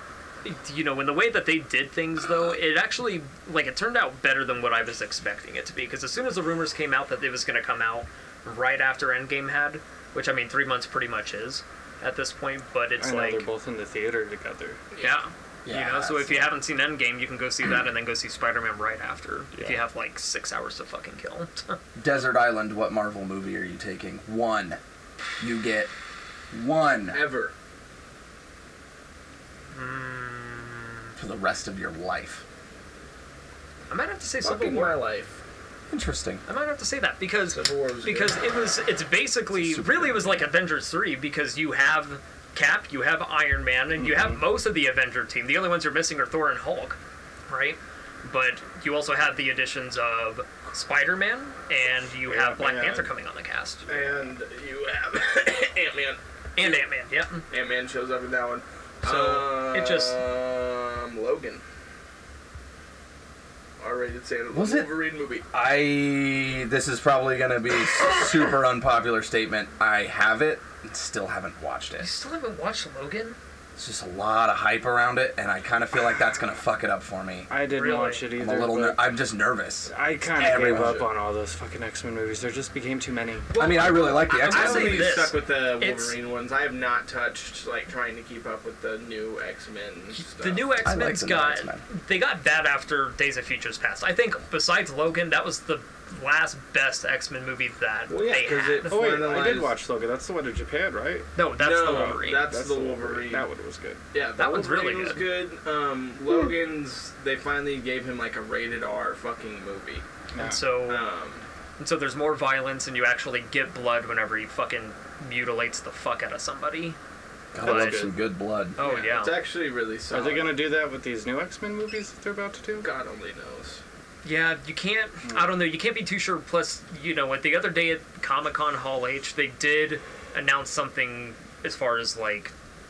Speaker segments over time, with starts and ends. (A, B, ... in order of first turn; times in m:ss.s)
0:00.4-0:13.4 A
0:13.0-0:14.8 B
0:14.9-0:15.2 C
0:15.0-0:21.8 A
0:15.6-0:16.5 D
0:19.5-0:19.8 B
0:22.0-0:24.8 D
0:25.4-0:25.9 D
0:26.5-0:27.2 D
0:27.1-0:27.5 C
0:29.7-0:31.1 A
0:31.2-0:32.4 D
0:33.9-0:35.0 A
0:34.4-0:35.4 C
0:35.9-0:36.4 D
0:36.5-0:47.0 A
0:37.5-0:38.5 C
0:39.5-0:40.4 D
0:44.0-0:44.4 B
0:47.5-0:54.2 A
0:52.2-0:53.1 B
0:53.9-0:56.9 C
0:56.6-0:57.5 A
0:57.5-1:01.6 C
0:59.0-1:00.2 A
1:03.8-1:05.4 C
1:04.5-1:04.9 D
1:05.5-1:12.1 D
1:12.0-1:13.4 A
1:13.8-1:17.5 D
1:17.5-1:19.2 B
1:17.7-1:18.3 A
1:18.4-1:21.1 D
1:19.9-1:23.5 B
1:20.5-1:21.1 C
1:23.5-1:26.2 A
1:23.5-1:25.1 D
1:24.3-1:30.7 C
1:30.2-1:39.4 A
1:30.8-1:31.8 D
1:38.1-1:39.7 C
1:38.9-1:41.3 B
1:41.4-1:42.5 A
1:41.6-1:43.5 C
1:41.8-1:44.0 B
1:44.1-1:50.0 C
1:44.4-1:45.3 A
1:50.3-1:50.6 B
1:50.4-1:51.1 A
1:50.9-1:51.5 C
1:51.8-1:57.0 A
1:57.5-1:58.8 D
1:57.6-1:58.1 B
1:57.6-1:58.0 A
1:58.8-1:59.4 A
1:58.8-2:00.6 C
2:00.1-2:02.9 B
2:02.8-2:03.8 C
2:04.2-2:12.5 A
2:05.3-2:05.6 B